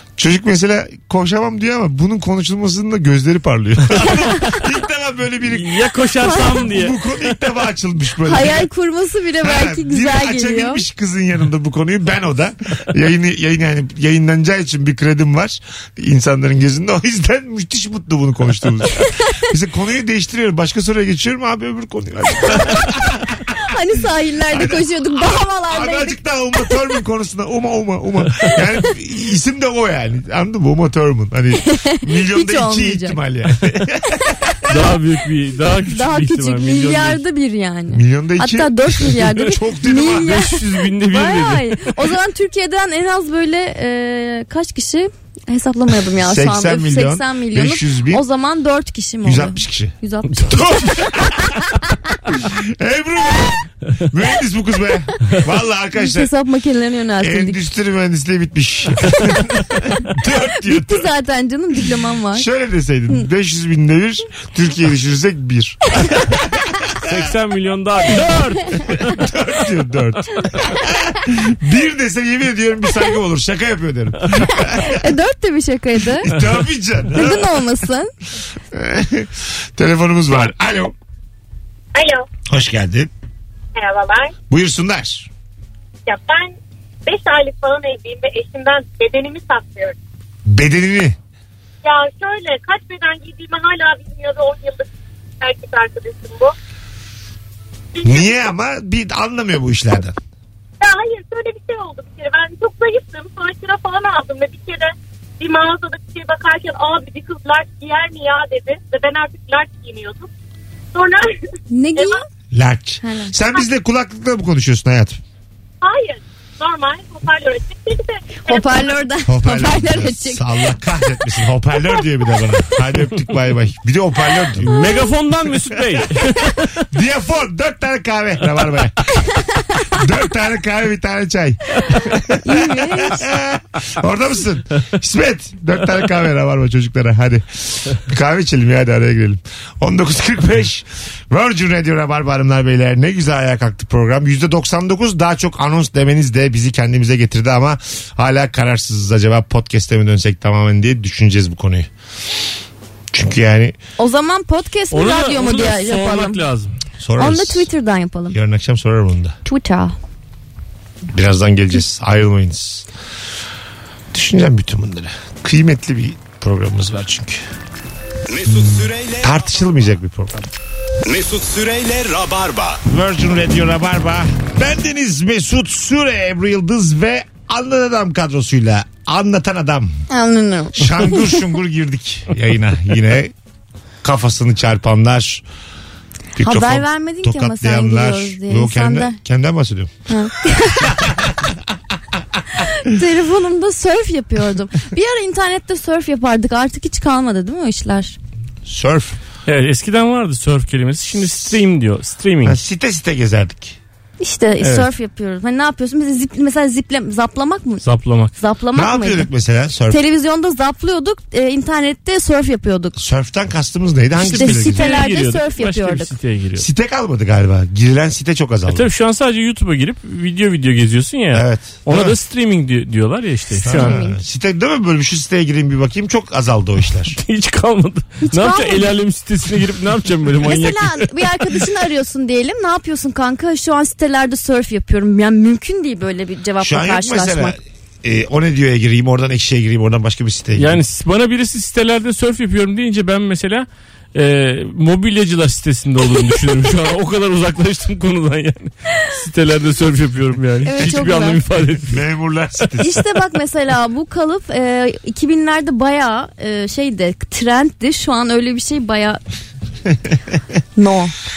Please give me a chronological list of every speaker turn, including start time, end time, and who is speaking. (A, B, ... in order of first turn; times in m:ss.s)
0:00.2-0:05.8 A
0:05.5-0:07.0 B
0:06.2-0:06.6 C
0:06.6-0:08.7 A
0:08.2-0:10.8 C
0:09.4-0:23.6 A
0:23.6-0:26.2 C
0:24.5-0:34.7 A
0:31.6-0:33.2 C
0:34.7-0:37.2 B
0:35.9-0:51.0 C
0:37.9-0:40.4 A
0:40.2-0:42.0 B
0:46.2-0:48.2 A
0:49.2-0:51.5 A
0:50.4-0:51.1 B
0:52.4-0:56.3 A
0:56.0-0:57.6 C
0:57.2-1:01.1 A
1:00.6-1:02.5 C
1:02.3-1:07.3 A
1:07.0-1:09.2 B
1:08.9-1:15.0 A
1:14.7-1:16.3 C
1:16.2-1:17.6 A
1:17.1-1:18.1 C
1:18.7-1:20.9 A
1:22.0-1:22.3 D
1:22.5-1:23.1 A
1:23.8-1:24.3 D
1:24.5-1:25.3 A
1:26.1-1:30.0 D
1:30.5-1:31.2 A
1:31.8-1:34.9 D
1:35.4-1:36.6 D
1:37.9-1:38.5 D
1:38.0-1:40.2 A
1:40.8-1:50.3 D
1:50.9-1:52.2 D
1:51.7-1:52.2 C
1:52.5-1:55.2 A
1:53.0-1:53.3 C
1:55.8-1:58.9 D
1:58.5-2:00.5 C
1:59.3-2:04.8 A
2:04.6-2:06.8 B
2:04.8-2:05.0 C
2:05.7-2:06.2 A
2:06.9-2:09.0 A
2:09.9-2:31.9 A
2:12.4-2:13.3 C
2:33.1-2:33.8 A
2:34.0-2:36.4 C
2:34.9-2:36.8 B
2:37.0-2:37.7 A
2:37.2-2:38.4 C
2:38.3-2:39.4 A
2:39.5-2:40.0 C
2:41.1-2:42.9 A
2:44.1-2:47.4 A
2:48.3-2:49.6 E
2:49.2-2:50.5 A
2:51.0-2:52.8 E
2:52.8-3:00.0 A
3:00.1-3:01.4 C
3:00.8-3:03.3 A
3:04.0-3:05.4 A
3:06.4-3:10.0 A
3:06.4-3:09.2 C
3:10.1-3:11.0 C
3:10.8-3:11.3 A
3:12.6-3:18.2 C
3:18.7-3:19.2 A
3:19.5-3:22.6 B
3:22.4-3:23.8 A
3:24.2-3:27.8 C
3:24.6-3:24.9 B
3:27.8-3:28.4 B
3:28.4-3:29.3 C
3:28.7-3:30.0 A
3:29.9-3:33.0 C
3:33.0-3:35.0 A
3:34.2-3:36.1 C
3:34.3-3:36.7 B
3:36.6-3:38.9 A
3:38.7-3:44.0 B
3:41.3-3:42.2 A
3:43.6-3:44.2 C
3:43.6-3:47.2 A
3:47.2-3:51.1 B
3:48.2-3:48.9 C
3:50.4-3:57.6 C
3:56.6-4:00.8 A
4:00.6-4:12.0 B
4:10.6-4:11.4 C
4:10.8-4:11.1 A
4:11.9-4:13.0 A
4:12.8-4:19.2 C
4:19.9-4:20.4 A
4:20.8-4:21.2 C